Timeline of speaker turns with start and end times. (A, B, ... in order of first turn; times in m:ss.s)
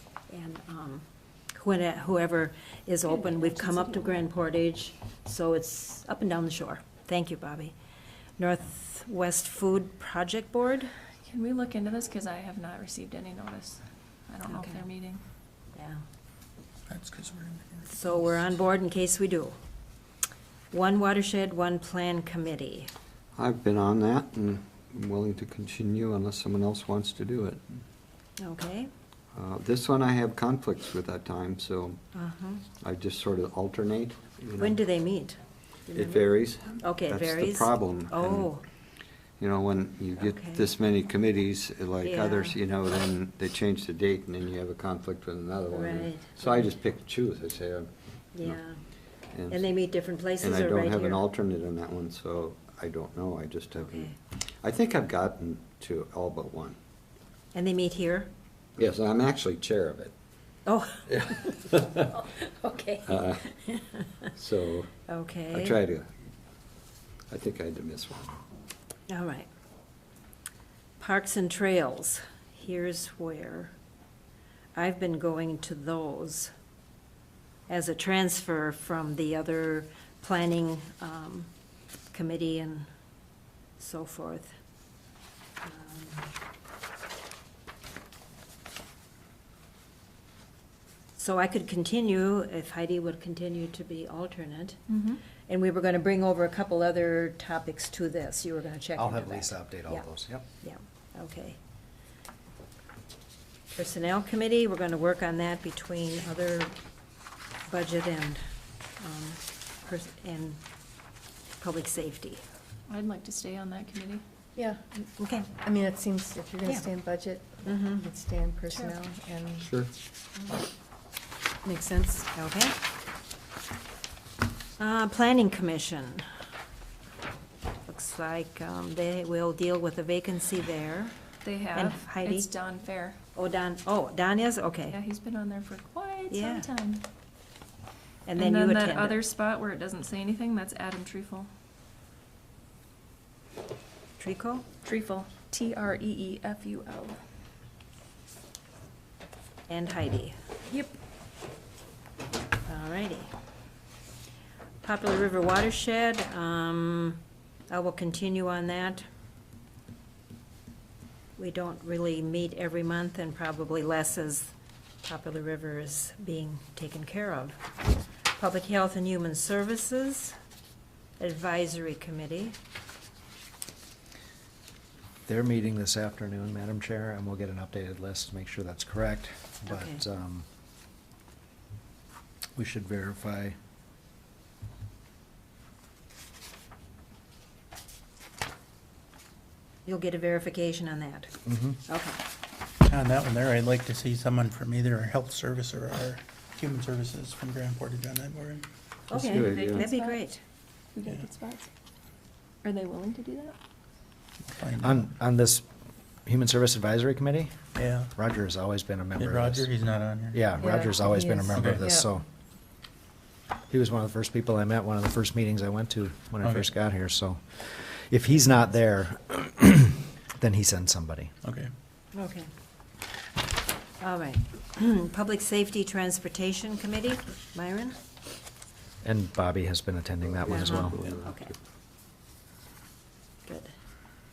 0:00.3-0:07.7 A
0:03.1-0:04.2 B
0:08.4-0:10.9 A
0:11.2-0:15.2 B
0:14.5-0:14.8 A
0:15.7-0:16.0 A
0:16.9-0:17.9 C
0:17.9-0:19.6 A
0:20.7-0:22.9 A
0:23.3-0:27.6 D
0:28.4-0:28.9 A
0:29.3-0:32.0 D
0:32.1-0:32.6 A
0:32.8-0:34.8 D
0:34.6-0:38.6 A
0:35.9-0:38.5 D
0:39.4-0:48.6 D
0:40.2-0:40.6 A
0:42.0-0:42.6 A
0:45.7-0:46.6 A
0:48.3-0:48.8 A
0:49.3-0:49.7 D
0:49.5-0:51.2 A
0:50.4-0:56.8 D
0:53.8-0:54.1 A
0:57.5-0:58.3 A
0:58.8-1:00.1 D
1:00.6-1:04.2 A
1:01.5-1:01.9 D
1:03.0-1:03.5 D
1:04.3-1:04.9 D
1:05.1-1:05.8 A
1:05.5-1:06.1 D
1:07.3-1:08.4 D
1:09.1-1:09.5 A
1:11.0-1:13.7 A
1:14.7-1:16.5 A
1:17.7-1:21.5 A
1:22.1-1:22.9 A
1:23.8-1:24.5 A
1:25.6-1:26.2 A
1:31.2-1:34.9 A
1:34.9-1:35.2 B
1:35.4-1:40.1 A
1:39.0-1:40.4 E
1:40.6-1:41.6 A
1:43.7-1:46.7 A
1:47.7-1:48.4 A
1:49.0-1:50.6 A
1:51.6-1:52.4 A
1:52.9-1:54.2 B
1:54.6-1:55.0 F
1:55.2-1:55.5 A
1:55.6-1:59.7 F
1:57.6-1:58.1 A
1:59.6-1:59.9 D
2:01.6-2:02.3 F
2:02.3-2:02.7 A
2:04.8-2:06.3 A
2:07.8-2:11.2 A
2:11.4-2:13.2 B
2:11.7-2:12.5 A
2:13.3-2:15.0 A
2:14.9-2:17.0 B
2:16.3-2:16.7 A
2:18.2-2:19.2 A
2:18.4-2:21.5 B
2:24.2-2:24.6 A
2:24.8-2:27.2 B
2:29.7-2:30.3 A
2:30.7-2:30.9 B
2:32.6-2:33.3 A
2:34.8-2:39.0 A
2:41.4-2:44.5 A
2:45.0-2:47.6 A
2:48.4-2:50.4 A
2:51.2-2:52.6 A
2:55.2-3:00.4 E
2:59.7-3:00.0 A
3:02.5-3:03.6 E
3:09.8-3:12.2 A
3:11.4-3:11.8 E
3:12.8-3:18.6 C
3:19.1-3:19.9 D
3:19.1-3:20.4 A
3:19.3-3:20.2 B
3:20.9-3:21.7 B
3:22.6-3:23.6 B
3:24.5-3:25.1 C
3:24.8-3:25.6 E
3:26.2-3:29.7 E
3:27.8-3:28.1 C
3:29.2-3:31.8 C
3:30.3-3:32.2 E
3:30.6-3:32.0 F
3:33.7-3:41.3 E
3:36.4-3:36.7 C
3:41.4-3:41.7 C
3:42.1-3:42.5 A
3:44.0-3:48.0 A
3:49.0-3:51.0 E
3:50.2-3:51.5 D
3:50.5-3:51.5 A
3:53.4-3:53.7 A